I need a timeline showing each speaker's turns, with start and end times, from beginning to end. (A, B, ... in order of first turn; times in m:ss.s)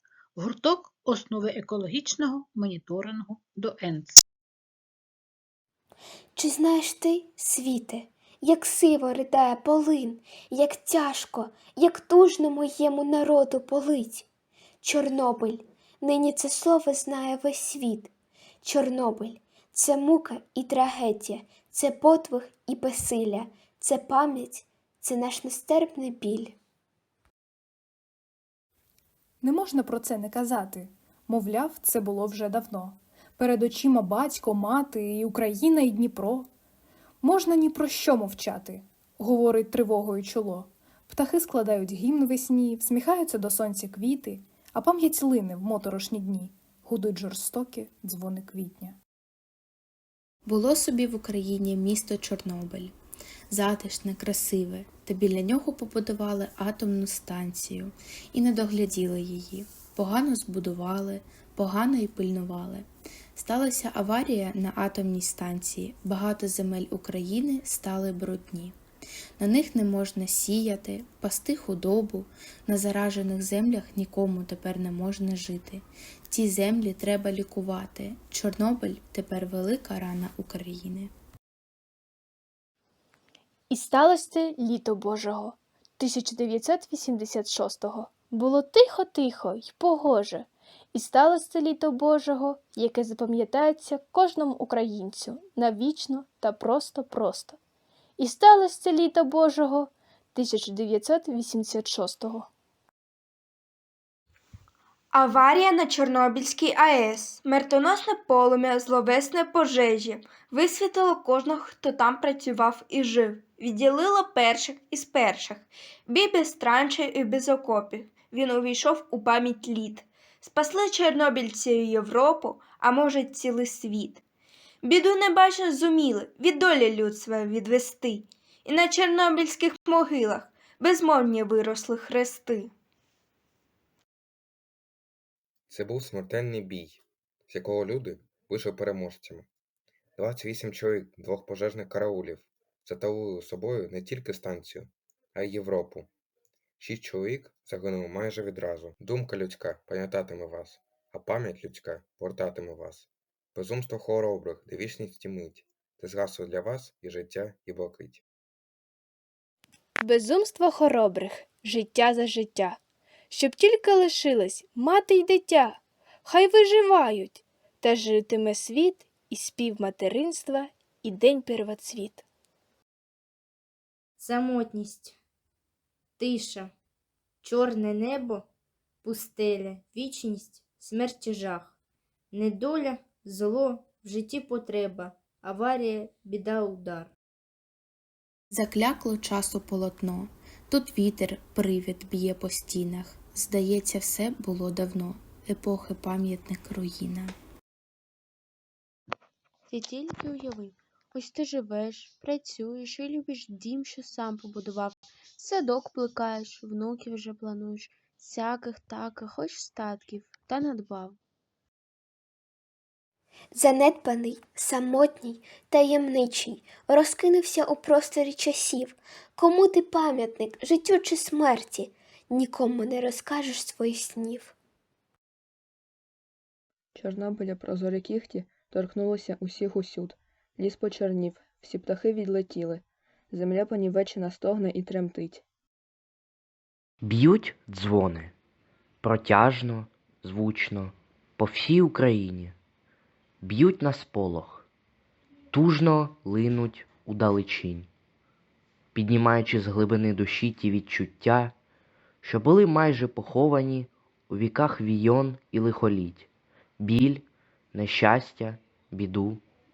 0:00.4-0:04.2 A
0:06.4-0:14.3 B
0:14.8-0:18.1 B
0:18.6-0:26.6 B
0:29.4-0:36.4 C
0:37.2-0:49.0 C
0:50.5-0:52.9 D
0:53.5-1:08.8 D
1:09.4-1:21.1 D
1:23.7-1:37.6 E
1:38.2-1:42.5 E
1:45.1-2:04.2 F
2:04.8-2:12.7 F
2:15.7-2:19.5 G
2:20.2-2:26.1 G
2:26.8-2:38.2 G
2:40.0-2:42.8 E
2:43.3-2:52.2 E
2:54.2-2:55.1 H
2:56.2-2:56.7 H
2:57.4-2:58.4 H
2:59.0-3:01.6 H
3:02.4-3:07.0 H
3:08.5-3:17.4 D
3:19.7-3:31.2 I
3:33.5-3:44.5 B
3:47.0-3:55.4 J
3:57.0-3:58.3 K
3:59.0-4:02.6 K
4:03.4-4:04.7 K
4:05.5-4:07.9 K
4:08.9-4:11.6 K
4:12.2-4:19.4 K